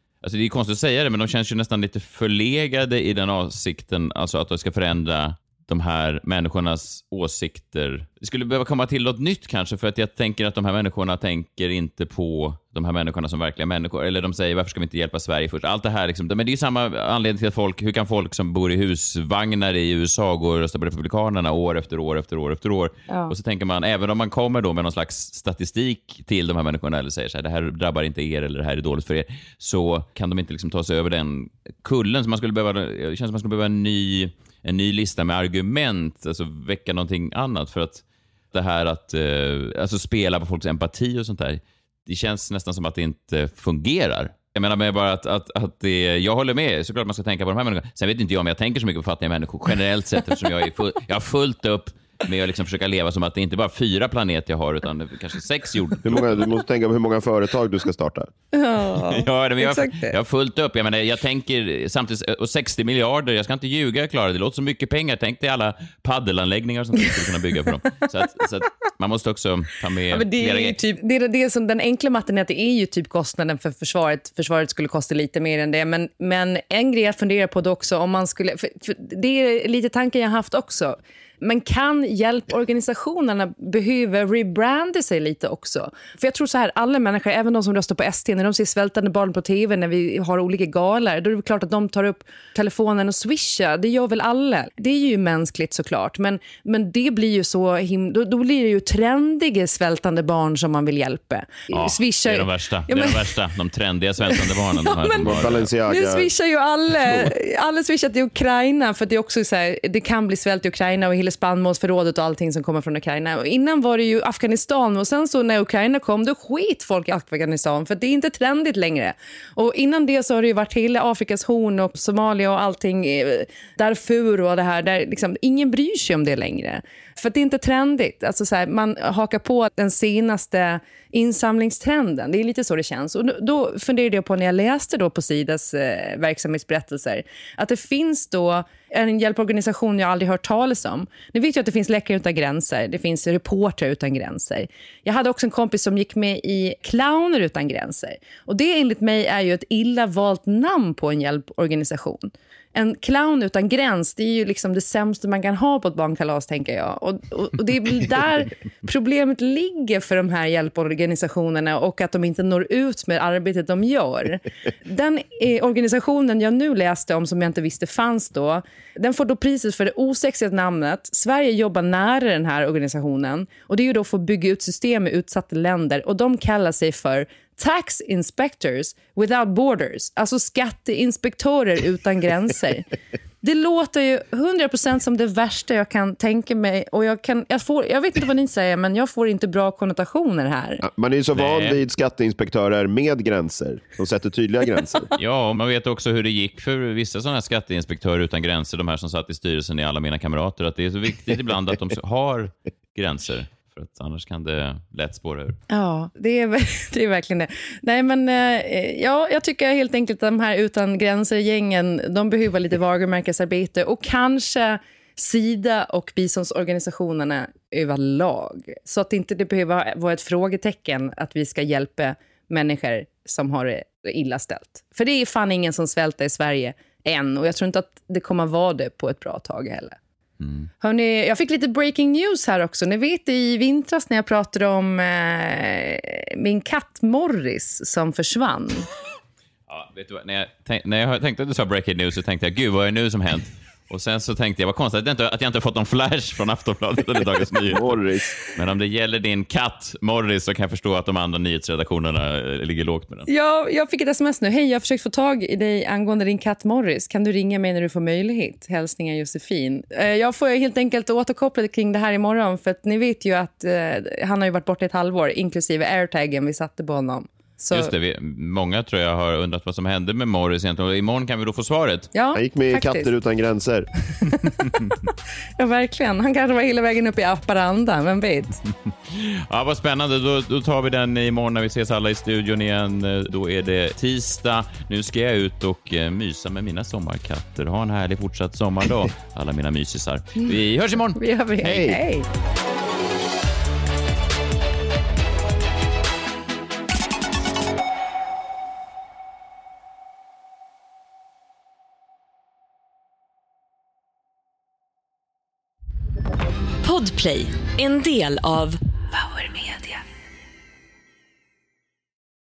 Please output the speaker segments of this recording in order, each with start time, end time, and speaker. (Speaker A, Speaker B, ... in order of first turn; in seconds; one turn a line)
Speaker A: 0.2-56.5
Speaker B: 56.0-58.3
Speaker C: 58.5-60.1
Speaker A: 59.1-70.8
Speaker C: 70.1-103.3
Speaker A: 101.7-105.7
Speaker C: 104.3-182.9
Speaker B: 105.2-106.3
Speaker C: 183.4-190.8
Speaker B: 190.8-195.1
Speaker A: 191.3-191.8
Speaker A: 195.2-205.6
Speaker C: 205.7-229.9
Speaker A: 230.4-230.7
Speaker C: 230.8-238.9
Speaker A: 239.7-247.9
Speaker B: 247.7-248.3
Speaker A: 248.5-253.3
Speaker C: 253.3-267.9
Speaker A: 267.7-272.1
Speaker C: 272.1-273.1
Speaker B: 272.3-273.9
Speaker C: 275.6-278.6
Speaker A: 279.1-291.2
Speaker C: 291.1-292.2
Speaker B: 291.6-292.0
Speaker D: 306.8-310.0